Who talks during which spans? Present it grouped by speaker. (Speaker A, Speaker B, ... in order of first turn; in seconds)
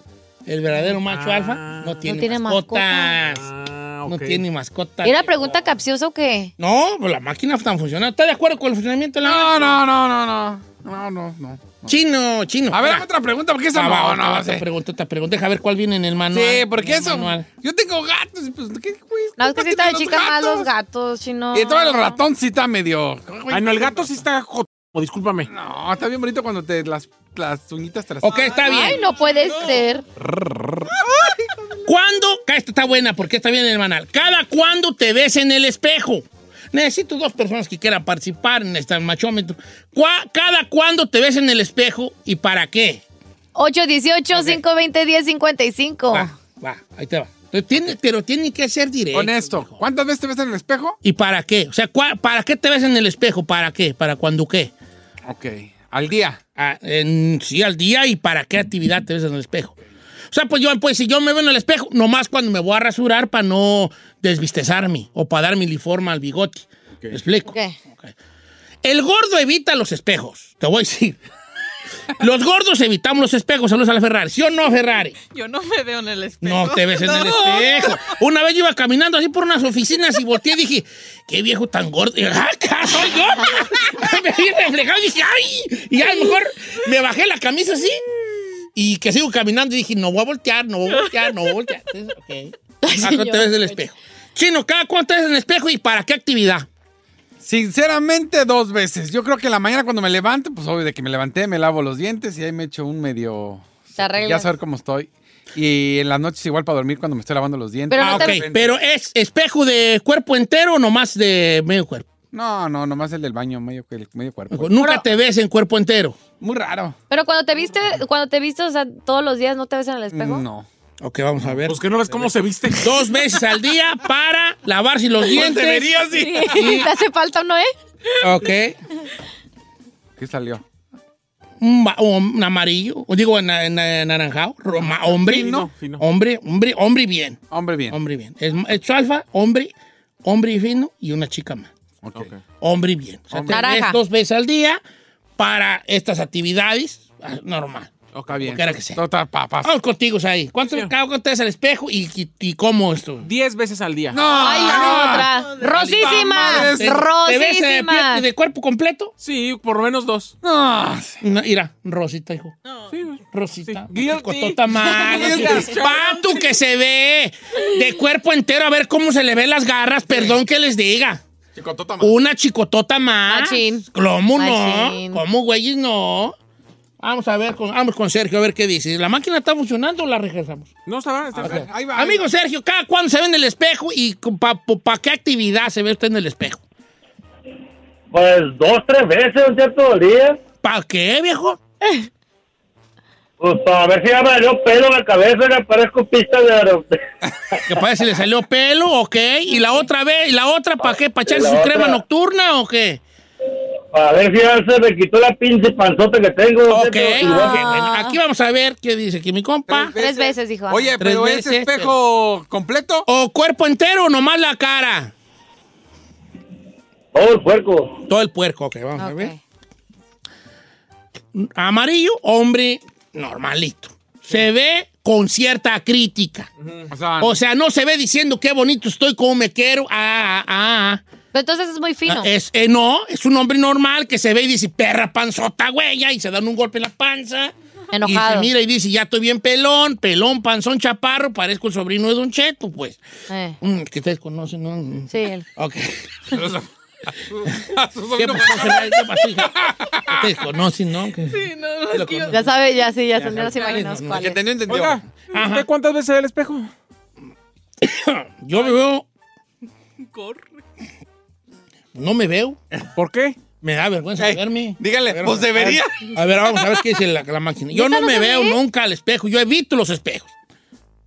Speaker A: 0.5-3.5, 4.0-5.6, 6.6-9.8, 11.9-13.1, 13.7-17.5, 28.2-29.0, 31.8-43.0, 46.1-49.8, 51.0-54.7, 56.5-59.7, 60.3-68.1, 68.8-71.2, 72.2-75.1, 76.4-88.0, 88.7-96.7, 108.0-112.1, 114.5-116.2, 121.0-121.8, 122.8-126.9, 128.2-128.8, 131.6-139.7, 140.2-141.7, 142.6-144.8, 145.4-149.0, 149.6-153.3, 155.7-159.1, 161.2-162.5, 163.3-171.2, 172.0-176.3, 177.0-180.7, 181.4-186.6, 190.6-191.6, 197.6-203.0, 206.7-209.9, 211.0-211.9, 213.1-215.1, 218.1-219.3, 221.3-226.5, 227.2-231.0, 232.1-243.0, 243.6-246.1, 248.2-252.5, 253.1-254.3, 255.3-255.7, 257.8-259.0, 261.9-262.6, 263.6-270.3
Speaker B: 1.0-2.1, 3.3-4.4, 23.5-25.5, 121.7-122.9, 135.1-136.0, 148.1-148.5, 153.2-154.2, 159.2-160.3, 162.9-166.2, 180.8-181.7, 226.6-226.9, 254.7-256.7, 262.9-263.4
Speaker C: 2.0-3.2, 5.0-6.5, 19.4-22.2, 28.4-30.0, 43.5-46.3, 67.5-67.8, 92.8-93.8, 104.0-104.5, 107.9-108.4, 117.1-120.5, 126.1-127.7, 143.5-144.0, 154.3-158.2, 173.3-175.2, 207.2-208.1, 209.9-211.0, 219.0-219.4, 231.3-232.3, 237.9-238.5, 243.3-243.6, 245.1-245.4, 252.3-254.4, 267.7-268.6
Speaker D: 9.2-12.0, 12.7-14.6, 16.3-20.7, 21.5-24.1, 25.4-28.9, 30.1-31.0, 49.1-51.0, 55.3-56.4, 97.4-108.7, 112.3-114.8, 116.4-117.0, 120.1-120.7, 125.3-126.7, 130.2-130.6, 135.2-135.7, 137.5-138.0, 142.0-142.3, 143.3-143.6, 148.3-149.7, 154.1-157.0, 160.4-161.2, 164.9-166.3, 171.5-172.1, 181.3-182.2, 209.7-213.1, 226.9-227.4, 246.3-246.7, 247.3-250.3, 254.1-255.0, 264.2-266.1
Speaker E: 29.1-29.4, 75.3-78.1, 155.3-155.6, 162.6-163.0, 251.3-252.4, 253.6-253.9, 260.0-260.6
Speaker F: 188.1-190.4, 193.4-197.0, 201.3-202.0, 203.9-207.6, 217.1-218.0